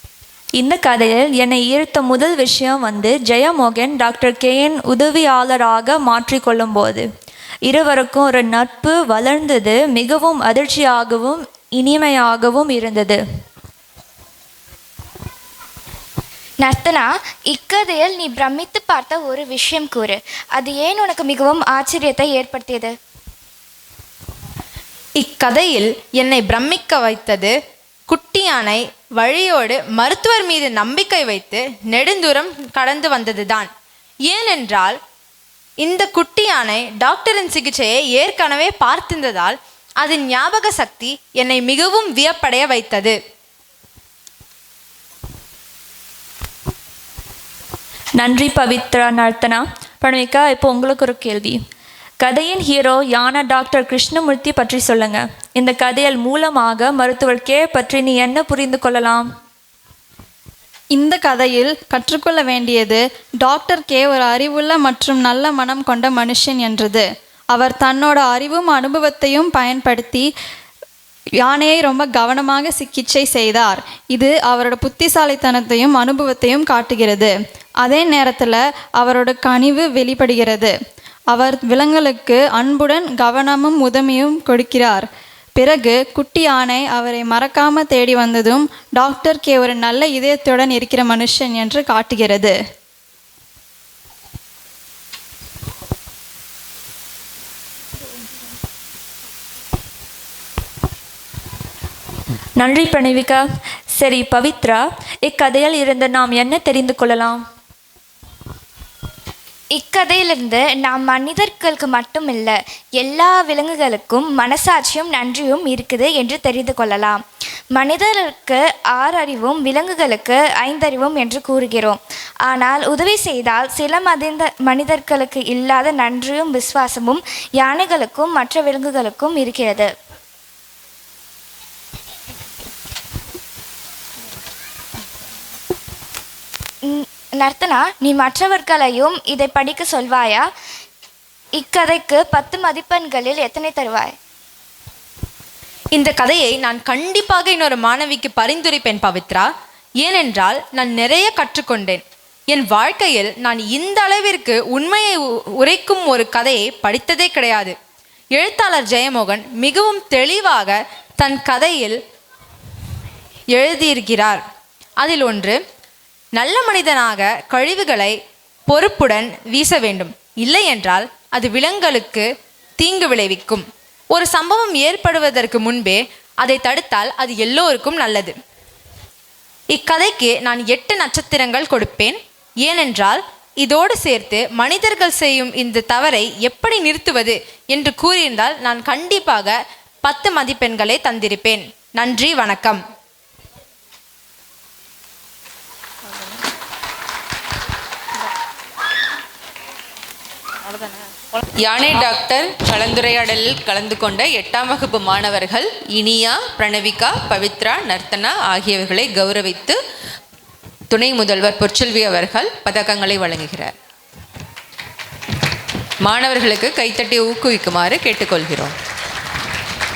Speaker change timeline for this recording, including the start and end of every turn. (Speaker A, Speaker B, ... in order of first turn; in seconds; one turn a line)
Speaker A: 0.6-7.0
Speaker A: 7.7-13.2
Speaker B: 16.6-22.9
Speaker C: 25.2-27.5
Speaker C: 28.1-33.7
Speaker C: 34.3-35.0
Speaker C: 35.8-43.1
Speaker A: 48.2-51.6
Speaker A: 52.2-59.2
Speaker D: 60.9-70.3
Speaker D: 71.4-80.7
Speaker D: 81.3-85.0
Speaker D: 85.6-92.5
Speaker A: 102.6-107.4
Speaker B: 109.7-117.2
Speaker B: 117.7-129.9
Speaker B: 136.8-140.4
Speaker B: 141.6-144.1
Speaker C: 145.9-149.5
Speaker C: 150.0-157.7
Speaker C: 158.3-162.0
Speaker C: 163.5-164.4
Speaker C: 165.0-165.6
Speaker C: 166.4-168.2
Speaker C: 168.7-172.3
Speaker C: 172.8-178.3
Speaker C: 179.7-192.8
Speaker E: 201.6-209.7
Speaker E: 210.9-213.7
Speaker E: 216.1-218.7